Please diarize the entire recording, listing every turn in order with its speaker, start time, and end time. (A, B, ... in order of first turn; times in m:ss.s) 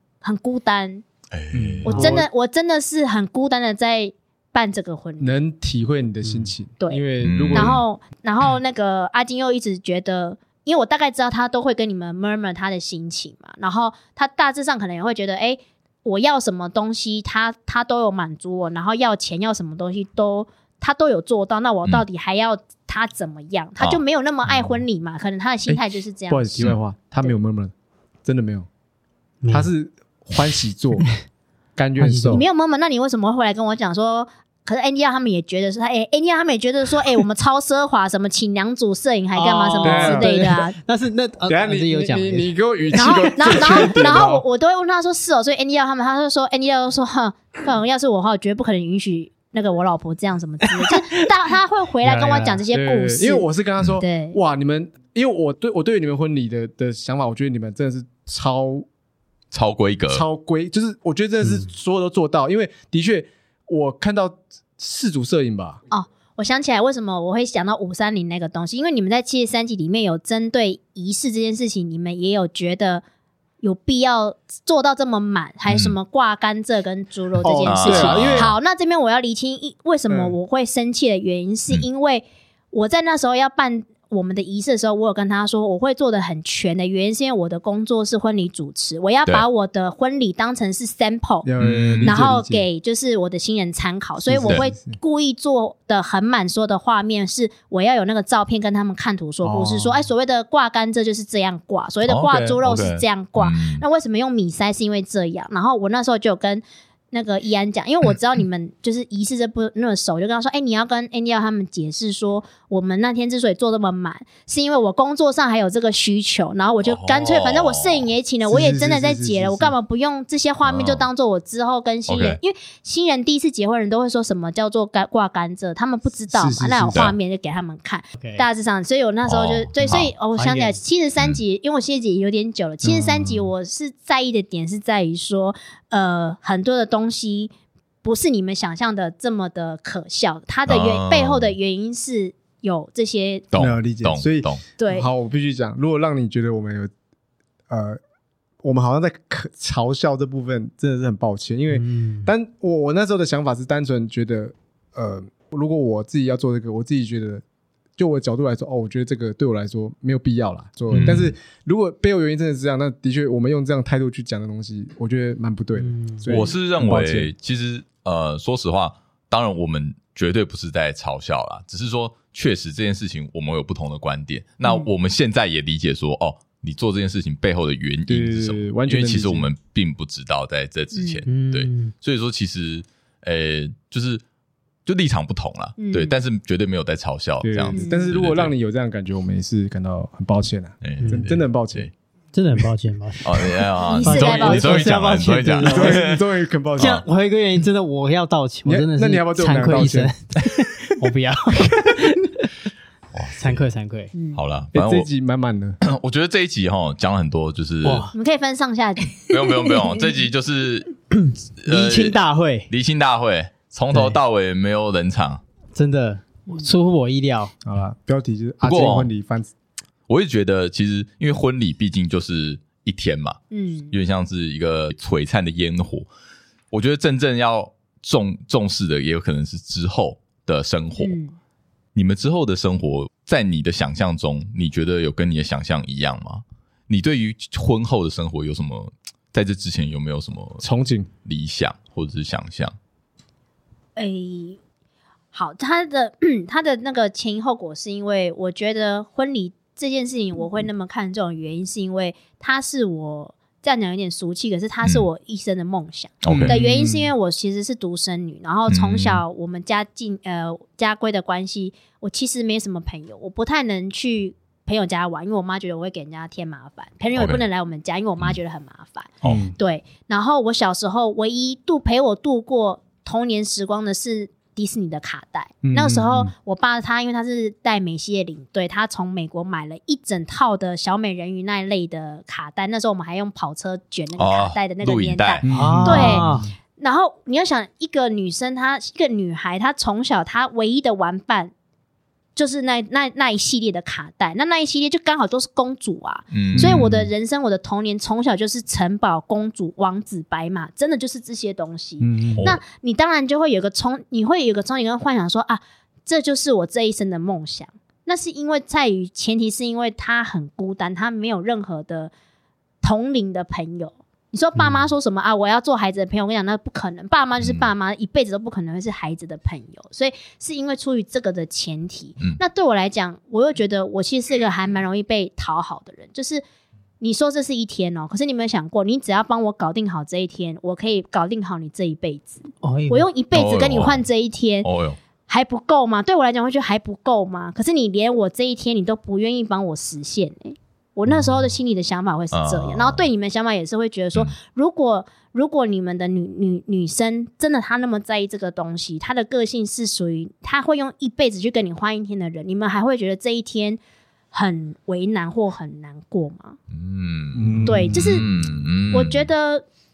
0:00.2-0:01.0 A
0:01.3-0:01.9 B
0:01.5-0:02.3 C
0:01.8-0:05.4 A
0:01.9-0:02.2 D
0:05.2-0:07.8 C
0:06.2-0:06.5 D
0:06.8-0:26.6 A
0:07.2-0:07.8 B
0:25.7-0:27.7 C
0:28.2-0:28.7 C
0:29.4-0:29.7 D
0:29.5-0:31.1 C
0:31.8-0:32.4 C
0:32.0-0:32.4 D
0:32.3-0:40.8 A
0:39.3-0:44.2 D
0:39.8-0:40.3 C
0:41.4-0:44.4 C
0:42.9-0:54.4 A
0:50.7-0:51.0 D
0:52.0-0:52.6 D
0:52.7-0:58.8 C
0:59.5-1:00.2 B
1:00.1-1:05.8 C
1:05.9-1:13.0 A
1:13.6-1:31.5 A
1:15.7-1:15.9 B
1:17.4-1:18.5 C
1:17.6-1:18.6 B
1:20.1-1:20.4 C
1:31.4-1:32.7 C
1:31.6-1:32.2 B
1:32.0-2:17.5 A
1:34.2-1:35.0 C
1:39.4-1:40.1 C
1:42.0-1:43.8 B
1:56.8-1:58.1 B
1:58.4-1:59.7 C
2:00.6-2:01.0 B
2:02.1-2:02.4 B
2:06.3-2:07.1 C
2:08.2-2:08.4 D
2:09.2-2:10.1 B
2:10.4-2:10.8 D
2:12.8-2:13.5 C
2:18.0-2:23.5 A
2:20.7-2:21.5 B
2:23.5-2:24.6 B
2:23.6-2:26.9 C
2:24.8-2:25.1 A
2:27.7-2:28.0 C
2:28.6-2:37.4 C
2:31.7-2:32.3 D
2:38.0-2:47.3 C
2:40.9-2:41.3 D
2:40.9-2:41.2 B
2:45.8-2:46.3 D
2:46.3-3:04.2 B
2:58.1-2:59.5 C
3:00.9-3:01.2 A
3:01.2-3:01.9 D
3:04.8-3:08.5 B
3:05.8-3:06.2 A
3:07.4-3:11.9 C
3:07.7-3:08.1 A
3:10.8-3:11.9 B
3:11.0-3:11.2 D
3:12.3-3:16.0 D
3:13.2-3:16.2 B
3:13.9-3:14.9 A
3:15.6-3:17.0 C
3:16.8-3:17.0 B
3:16.8-3:22.5 D
3:18.6-3:20.1 C
3:23.1-3:23.6 B
3:23.4-3:24.1 D
3:24.1-3:24.4 A
3:24.3-3:25.1 B
3:24.7-3:25.8 C
3:25.8-3:28.1 B
3:27.8-3:28.1 D
3:28.1-3:29.9 A
3:29.3-3:31.0 B
3:31.1-3:32.7 D
3:31.6-3:32.2 B
3:32.7-3:35.4 B
3:33.9-3:34.2 D
3:35.7-3:37.5 D
3:36.5-3:36.7 A
3:37.6-3:39.5 C
3:38.6-3:39.1 B
3:40.1-3:43.4 B
3:43.5-3:43.9 A
3:43.9-3:46.1 B
3:46.7-3:51.2 B
3:51.0-3:51.3 A
3:51.9-4:00.6 B
4:00.6-4:01.1 C
4:01.2-4:02.7 B
4:04.0-4:04.6 A
4:05.3-4:51.5 A
4:16.2-4:16.6 B
4:16.3-4:17.1 C
4:18.7-4:19.2 B
4:27.1-4:27.4 B
4:29.2-4:29.5 B
4:29.2-4:29.5 C
4:35.6-4:36.3 C
4:44.2-4:46.0 B
4:45.4-4:46.5 C
4:45.5-4:46.5 D
4:52.4-5:12.1 A
4:56.3-4:56.9 B
4:56.5-4:57.1 C
5:02.0-5:02.5 C
5:02.3-5:02.6 B
5:12.8-5:26.4 A
5:17.4-5:17.7 B
5:27.0-5:34.7 A
5:32.6-5:33.1 D
5:33.3-5:34.0 B
5:34.6-5:35.0 B
5:35.3-5:53.8 A
5:42.3-5:43.0 B
5:54.3-5:56.6 A
5:56.7-5:59.3 B
5:57.3-5:58.2 C
5:57.6-5:58.2 A
5:58.9-5:59.6 A